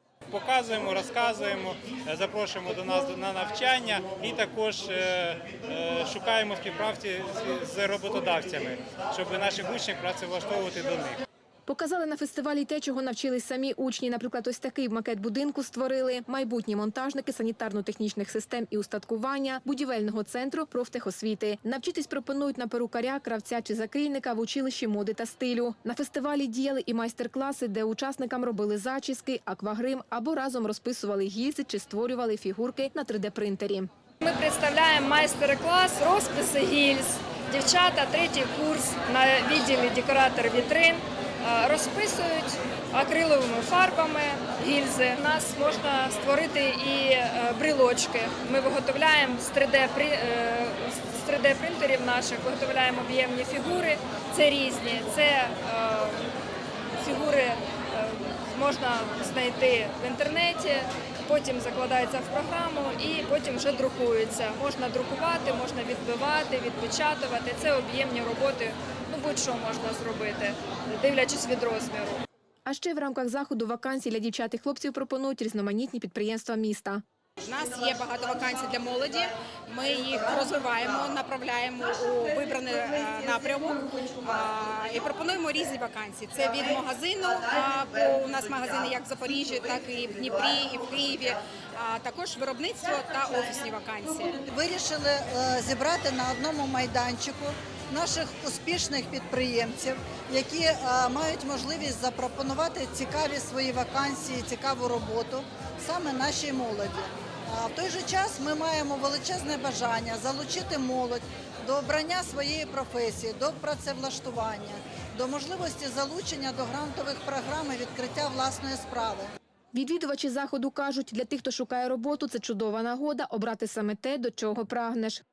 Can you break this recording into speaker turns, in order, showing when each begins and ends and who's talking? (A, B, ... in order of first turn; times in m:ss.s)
0:00.3-0:11.2 A
0:11.7-0:33.9 B
0:34.2-0:56.3 C
0:57.0-1:12.2 C
1:12.6-1:17.0 B
1:17.4-1:34.4 D
1:34.5-1:59.3 E
1:59.7-2:05.2 B